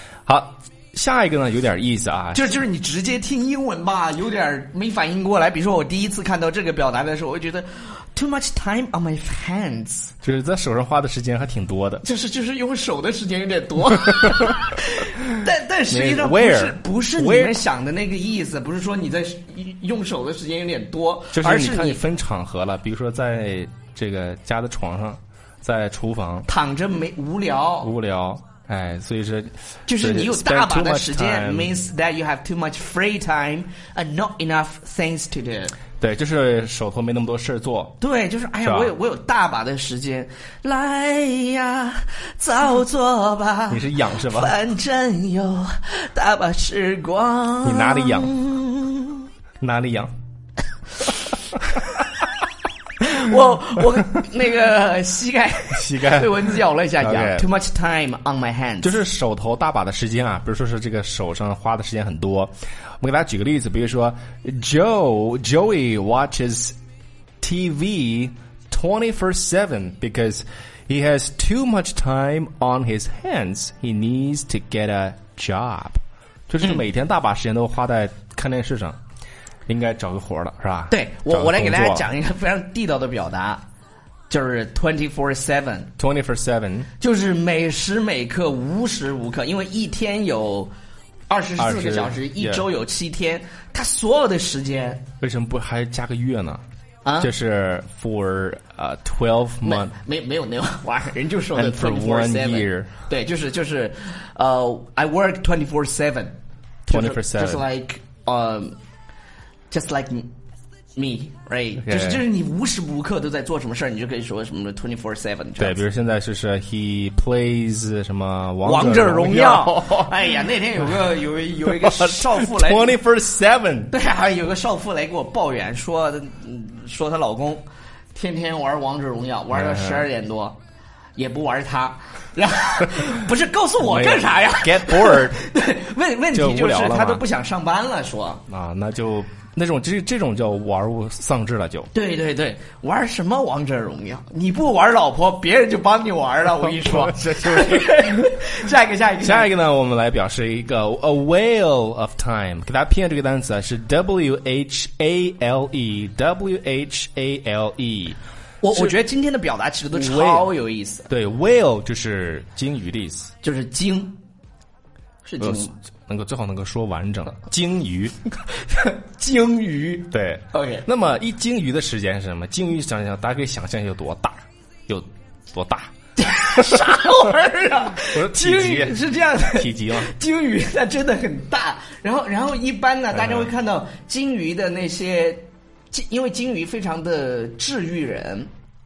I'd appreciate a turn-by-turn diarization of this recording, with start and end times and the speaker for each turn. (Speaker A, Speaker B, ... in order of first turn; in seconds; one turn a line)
Speaker A: 0.2-2.5
Speaker B: 2.3-10.1
Speaker A: 10.2-12.0
Speaker B: 12.0-22.0
Speaker A: 15.9-17.6
Speaker A: 21.3-26.5
Speaker B: 26.5-27.9
Speaker A: 27.8-31.7
Speaker B: 29.9-35.7
Speaker A: 36.0-38.0
Speaker B: 38.0-49.2
Speaker A: 38.6-38.9
Speaker A: 43.7-44.5
Speaker A: 47.6-48.3
Speaker A: 49.6-50.1
Speaker B: 51.7-52.1
Speaker B: 53.0-59.0
Speaker A: 55.7-57.5
Speaker A: 58.8-66.8
Speaker A: 67.4-79.0
Speaker A: 79.7-82.0
Speaker B: 80.9-83.6
Speaker B: 84.3-85.9
Speaker A: 86.0-86.9
Speaker B: 87.0-90.7
Speaker B: 91.3-95.0
Speaker A: 91.6-92.7
Speaker A: 95.2-96.6
Speaker B: 97.0-97.3
Speaker A: 97.2-99.9
Speaker B: 99.6-106.4
Speaker A: 101.5-102.9
Speaker A: 106.8-107.6
Speaker B: 106.9-108.8
Speaker B: 109.7-110.3
Speaker B: 111.0-115.8
Speaker A: 111.8-112.2
Speaker A: 115.6-120.3
Speaker B: 118.6-123.0
Speaker A: 121.6-123.9
Speaker B: 123.9-130.6
Speaker A: 129.5-130.1
Speaker B: 131.2-138.4
Speaker A: 133.8-135.4
Speaker A: 136.3-137.2
Speaker A: 138.5-141.9
Speaker B: 141.9-149.5
Speaker A: 146.6-147.9
Speaker A: 149.2-158.2
Speaker B: 158.6-161.1
Speaker A: 158.7-158.9
Speaker A: 159.9-160.5
Speaker A: 161.1-163.3
Speaker B: 163.4-164.2
Speaker B: 165.2-165.7
Speaker A: 165.4-168.1
Speaker B: 168.6-170.8
Speaker A: 170.1-175.9
Speaker B: 176.2-188.5
Speaker A: 177.9-180.1
Speaker A: 183.1-183.5